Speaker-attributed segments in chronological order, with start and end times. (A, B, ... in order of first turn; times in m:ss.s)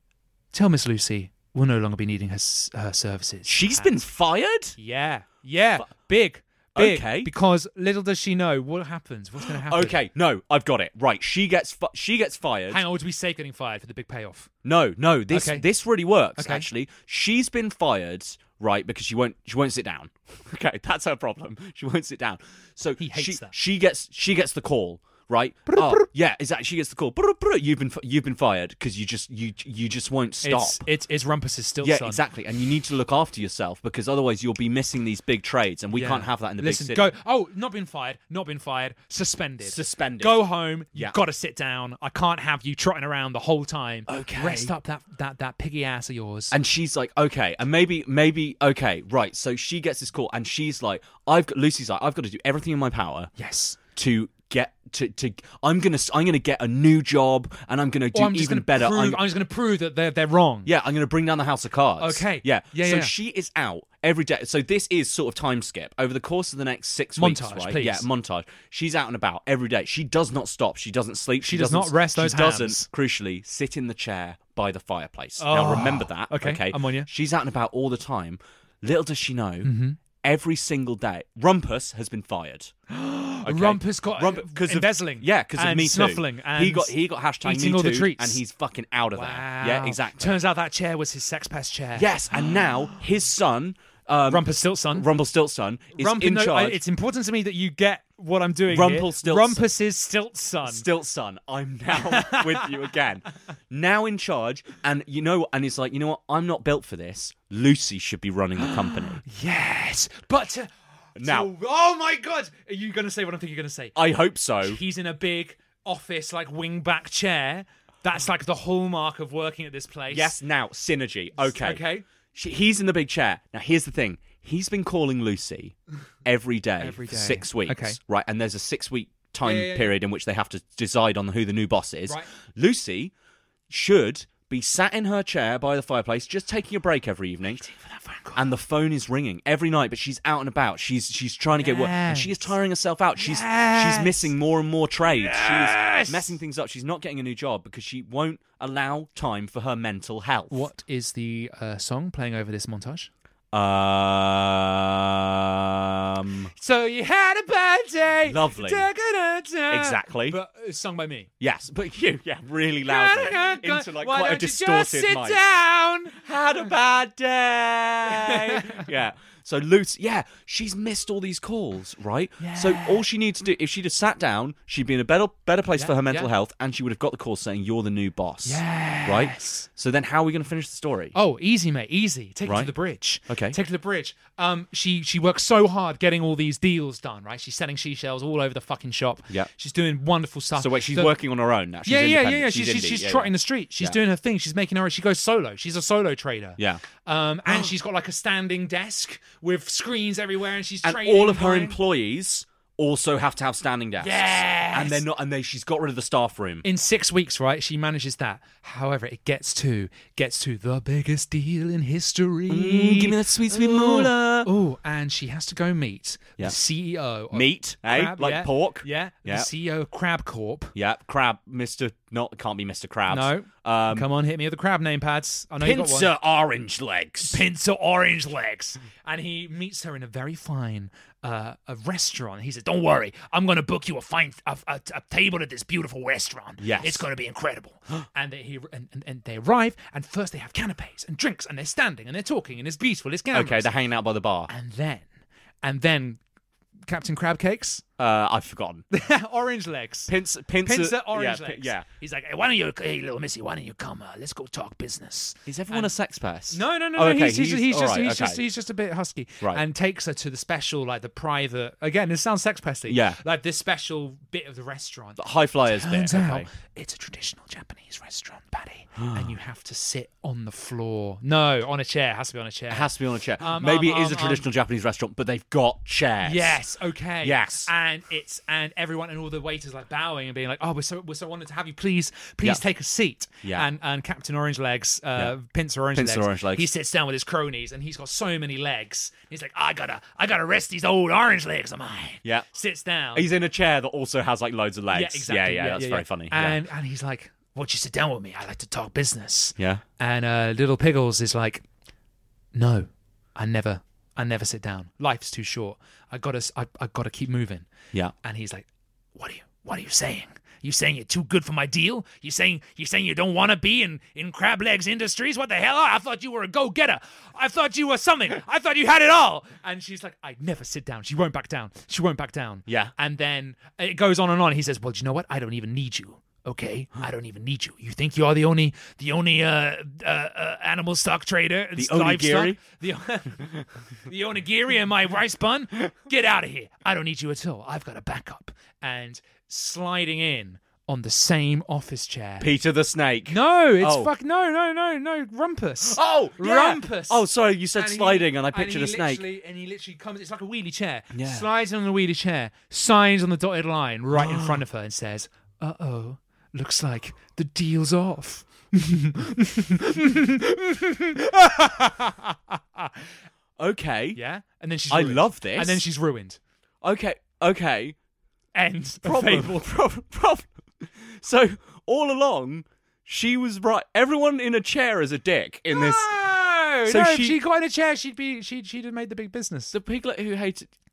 0:00.5-0:03.9 A
0:03.5-0:04.8 B
0:04.8-0:10.0 A
0:06.8-0:07.3 B
0:09.5-0:12.8 B
0:12.7-0:14.5 A
0:14.6-0:30.9 B
0:15.3-0:15.6 A
0:16.4-0:16.7 A
0:23.0-0:23.5 A
0:25.7-0:26.1 A
0:30.4-0:32.2 A
0:31.8-0:37.1 B
0:35.9-0:46.5 A
0:39.6-0:41.2 B
0:44.1-0:44.7 B
0:46.5-0:53.3 B
0:53.4-0:53.8 A
0:54.0-0:59.2 B
0:58.1-1:00.7 A
1:00.7-1:22.7 B
1:02.0-1:03.1 A
1:07.2-1:08.1 A
1:11.4-1:12.9 A
1:15.4-1:17.1 A
1:19.6-1:20.0 A
1:22.9-1:28.4 A
1:23.4-1:30.4 B
1:29.1-1:32.7 A
1:32.0-1:36.8 B
1:34.3-1:35.1 A
1:36.0-1:40.8 A
1:38.7-1:39.6 B
1:40.6-1:49.2 B
1:41.9-1:42.7 A
1:48.6-1:54.0 A
1:51.2-1:51.5 B
1:54.0-1:54.8 B
1:54.6-2:00.4 A
2:00.1-2:13.1 B
2:01.4-2:02.0 A
2:06.8-2:08.0 A
2:09.4-2:10.0 A
2:13.7-2:17.6 B
2:17.5-2:18.4 A
2:18.4-2:30.7 B
2:21.6-2:22.5 A
2:23.2-2:24.3 A
2:25.2-2:26.4 A
2:30.5-2:33.1 A
2:33.5-2:36.5 B
2:36.6-2:41.3 A
2:38.3-2:38.9 B
2:39.7-2:40.4 B
2:41.4-2:45.4 B
2:42.9-2:46.2 A
2:46.2-3:01.2 B
2:48.1-2:48.8 A
2:52.4-2:53.1 A
2:55.8-2:56.3 A
2:58.4-2:59.7 A
3:01.1-3:11.1 A
3:02.5-3:02.7 B
3:03.3-3:03.6 B
3:10.6-3:14.0 B
3:11.9-3:21.8 A
3:16.6-3:16.8 B
3:20.8-3:26.6 B
3:24.0-3:25.0 A
3:26.6-3:40.7 A
3:32.5-3:34.5 B
3:37.3-3:39.5 B
3:40.8-3:44.1 B
3:43.1-3:46.1 A
3:45.6-3:47.4 B
3:47.2-4:03.7 A
3:56.6-3:57.0 B
4:03.3-4:04.5 B
4:04.5-4:05.1 A
4:05.6-4:06.2 A
4:06.9-4:07.8 A
4:08.0-4:08.8 B
4:08.9-4:10.1 A
4:10.1-4:11.9 B
4:10.6-4:15.9 A
4:15.5-4:18.4 B
4:16.5-4:34.5 A
4:22.9-4:23.2 B
4:25.2-4:26.5 B
4:29.0-4:29.4 B
4:32.7-4:36.6 B
4:36.2-4:53.3 A
4:37.2-4:37.7 B
4:45.9-4:46.7 B
4:53.2-4:56.6 B
4:54.9-5:01.6 A
4:59.6-4:59.8 B
5:02.5-5:07.7 A
5:08.2-5:33.4 A
5:22.7-5:22.9 B
5:31.8-5:32.6 B
5:34.1-5:42.5 A
5:42.4-5:44.1 B
5:43.3-6:03.0 A
5:45.9-5:49.3 B
5:51.1-5:51.5 B
5:54.2-5:54.6 B
6:03.6-6:04.2 B
6:04.2-6:06.4 A
6:04.9-6:05.8 B
6:06.8-6:08.0 B
6:08.6-6:09.6 A
6:09.0-6:16.2 B
6:15.7-6:19.7 A
6:16.9-6:17.4 B
6:19.7-6:20.7 B